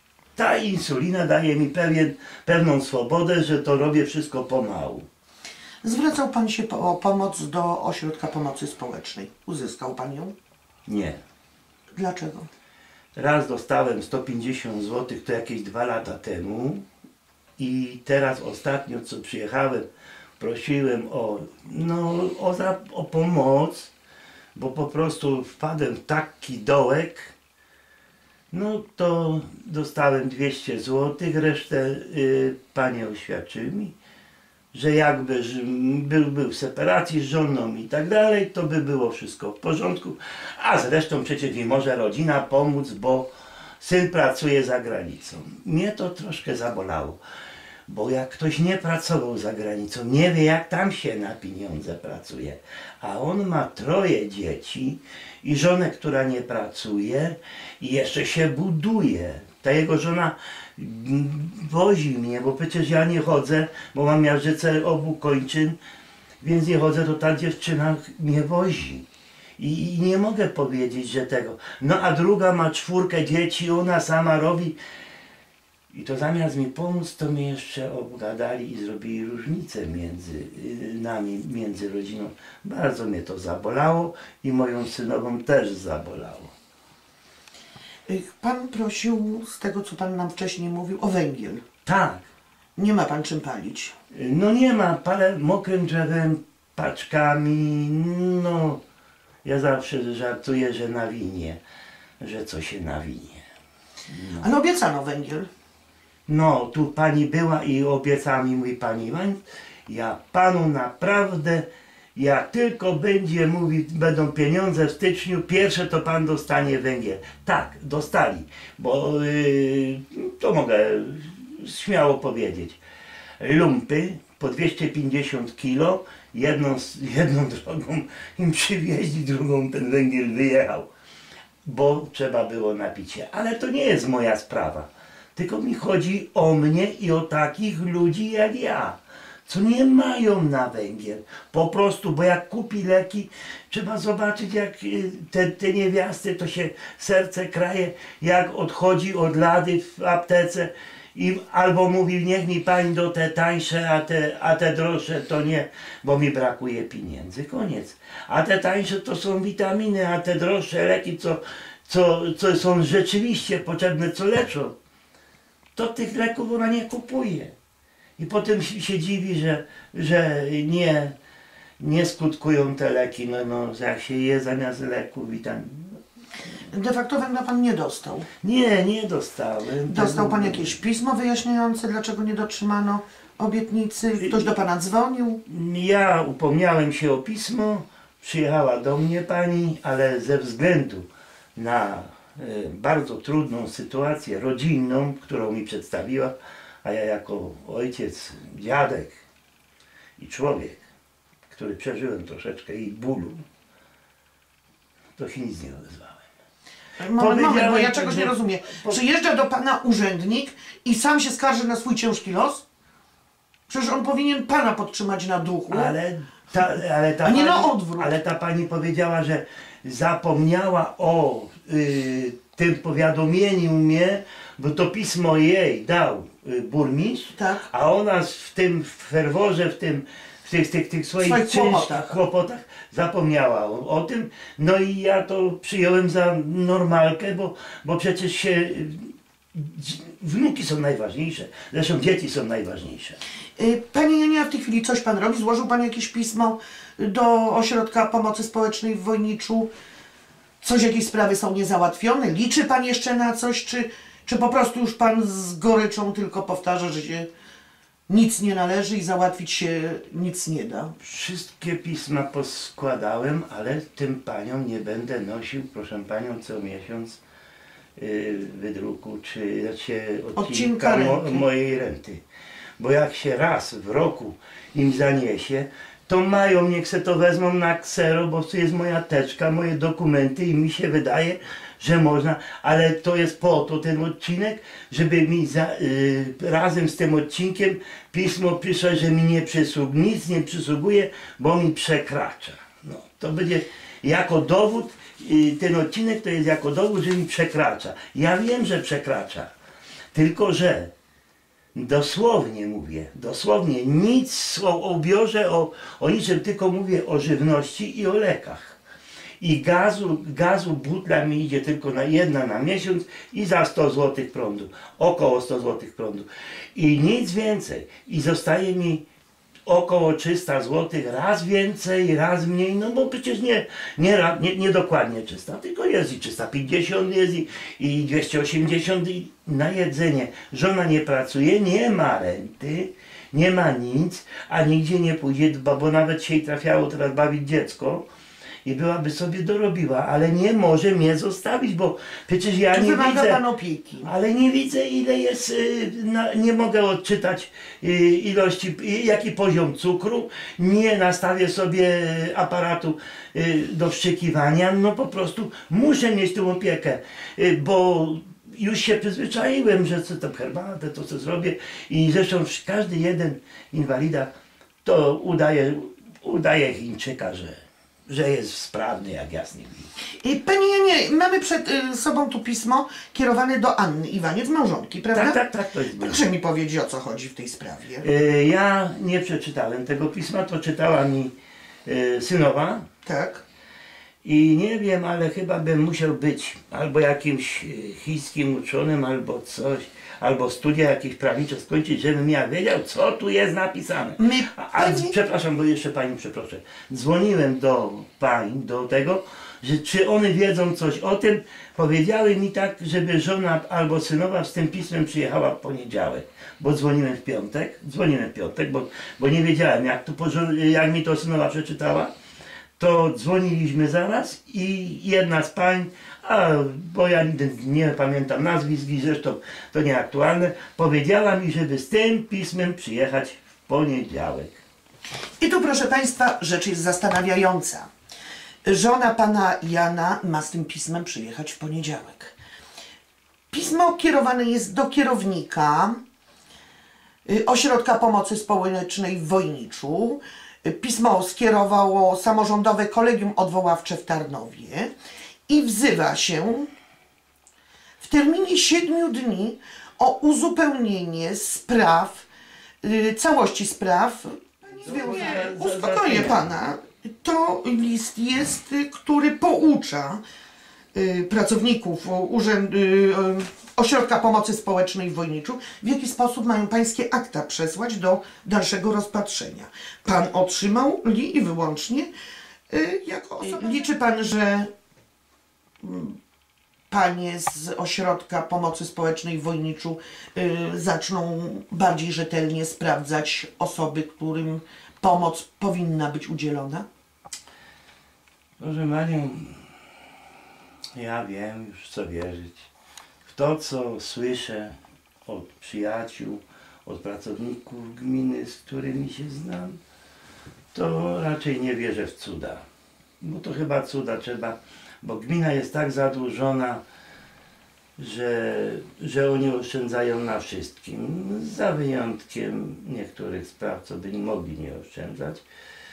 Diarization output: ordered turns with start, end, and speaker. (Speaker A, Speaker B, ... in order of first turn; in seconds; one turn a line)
Speaker A: 0.3-5.0
Speaker B: 5.8-10.3
Speaker A: 10.9-11.2
Speaker B: 11.9-12.5
Speaker A: 13.2-16.9
Speaker A: 17.6-19.9
Speaker A: 20.4-23.9
Speaker A: 24.5-27.3
Speaker A: 28.5-33.9
Speaker A: 34.7-43.3
Speaker A: 43.8-47.2
Speaker A: 47.9-65.8
Speaker A: 66.4-69.0
Speaker A: 69.6-74.8
Speaker A: 75.9-86.5
Speaker B: 88.1-91.6
Speaker A: 91.8-92.2
Speaker B: 92.8-93.9
Speaker A: 94.1-98.8
Speaker A: 99.4-101.6
Speaker A: 102.2-103.4
Speaker A: 104.1-104.5
Speaker B: 104.4-105.5
Speaker A: 106.3-122.8
Speaker A: 123.4-130.9
Speaker A: 131.7-164.7
Speaker A: 165.8-167.5
Speaker A: 168.2-171.2
Speaker A: 171.8-175.8
Speaker B: 176.7-178.3
Speaker A: 178.4-180.8
Speaker B: 179.8-185.4
Speaker A: 184.2-184.5
Speaker A: 185.5-199.2
Speaker A: 200.2-200.8
Speaker A: 201.5-203.4
Speaker A: 205.2-206.2
Speaker B: 207.0-212.7
Speaker A: 207.2-209.0
Speaker B: 213.7-216.0
Speaker A: 215.7-243.2
Speaker B: 217.2-218.1
Speaker B: 227.3-227.7
Speaker B: 231.2-232.2
Speaker B: 243.6-249.7
Speaker B: 250.6-257.3
Speaker B: 258.1-260.9
Speaker A: 261.0-267.2
Speaker A: 268.0-272.2
Speaker B: 270.4-271.4
Speaker A: 272.8-299.5
Speaker A: 300.1-300.9
Speaker A: 301.8-308.8
Speaker A: 309.4-319.0
Speaker A: 319.6-338.1
Speaker A: 338.6-343.4
Speaker B: 342.7-344.1
Speaker A: 344.0-364.3
Speaker A: 364.8-367.6
Speaker A: 368.1-369.9
Speaker B: 370.2-375.4
Speaker A: 375.1-376.3
Speaker B: 376.0-378.1
Speaker A: 378.0-381.3
Speaker A: 381.9-382.8
Speaker B: 383.1-383.4
Speaker A: 384.2-412.1
Speaker B: 394.2-395.1
Speaker A: 412.8-424.6
Speaker B: 425.4-427.9
Speaker B: 428.6-432.4
Speaker B: 433.5-436.0
Speaker B: 437.2-444.9
Speaker B: 445.5-446.7
Speaker B: 448.0-452.3
Speaker B: 452.8-460.2
Speaker A: 454.8-456.5
Speaker B: 460.9-472.1
Speaker B: 472.7-474.7
Speaker B: 475.8-476.2
Speaker B: 476.9-486.9
Speaker A: 488.6-489.6
Speaker A: 490.9-492.7
Speaker A: 493.2-494.7
Speaker A: 495.2-499.8
Speaker A: 500.7-502.6
Speaker A: 503.2-506.8
Speaker A: 508.0-515.4